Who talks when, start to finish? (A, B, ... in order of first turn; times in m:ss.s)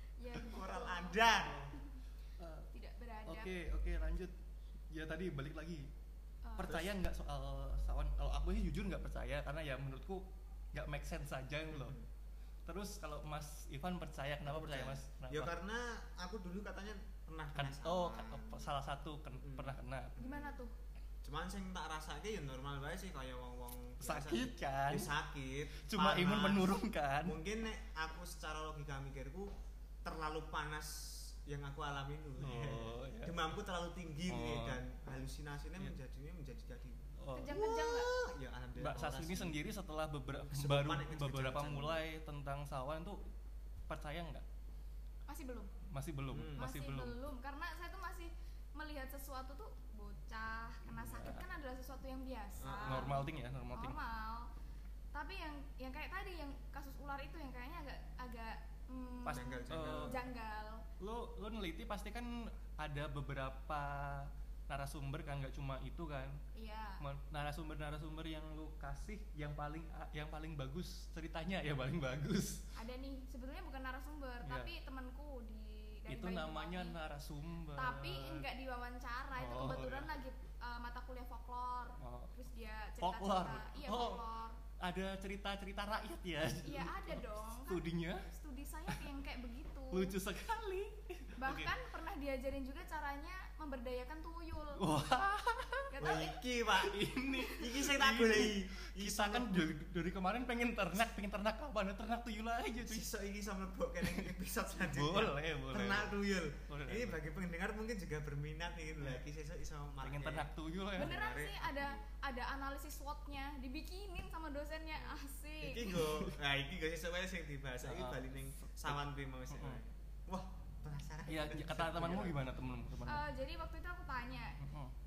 0:00.2-0:01.9 A
0:00.4-0:01.7 B
0:02.4-0:02.7 C
0:02.7-0:03.5 A
0:03.3-0:04.3 C
0:04.9-0:05.9 C
0:06.4-0:06.8 A
0:06.6-0:12.0 C
0:06.6-0:06.9 B
0:11.7-0:12.1 B
0:12.6-0:15.5 C
0:14.4-0:18.7 B
0:17.6-0:20.2 C
0:19.4-0:20.6 B
0:20.2-0:20.7 A
0:21.2-0:29.5 B
0:24.0-0:25.1 C
0:25.8-0:27.4 C
0:30.0-0:39.6 B
0:32.4-0:33.4 C
0:34.3-0:34.8 C
0:37.2-0:37.5 C
0:37.3-0:38.1 A
0:38.8-0:43.2 C
0:40.5-0:42.0 B
0:43.9-0:44.4 C
0:45.3-0:45.7 A
0:45.9-0:47.1 C
0:46.3-0:46.6 B
0:46.6-0:54.5 A
0:50.8-0:51.4 C
0:52.6-0:53.2 B
0:52.8-0:54.0 C
0:55.1-1:00.8 A
0:59.2-1:00.2 C
0:59.3-1:00.2 B
1:01.0-1:06.4 C
1:06.5-1:07.0 A
1:07.0-1:12.6 C
1:12.7-1:17.0 A
1:16.1-1:18.4 C
1:17.8-1:24.6 A
1:19.4-1:20.1 C
1:22.0-1:22.3 C
1:23.0-1:24.2 C
1:24.8-1:28.3 C
1:26.6-1:30.1 A
1:29.9-1:31.7 C
1:31.4-1:34.8 A
1:34.8-1:36.2 C
1:35.9-1:36.4 A
1:36.0-1:39.7 B
1:36.7-1:43.0 C
1:42.8-1:52.0 B
1:44.0-1:46.1 C
1:46.7-1:47.2 C
1:50.0-1:51.2 C
1:51.0-1:56.0 A
1:55.6-2:02.4 B
1:55.9-1:56.3 C
1:57.8-1:59.0 C
1:59.5-1:59.8 C
2:01.3-2:03.2 C
2:03.0-2:04.6 A
2:04.6-2:04.9 C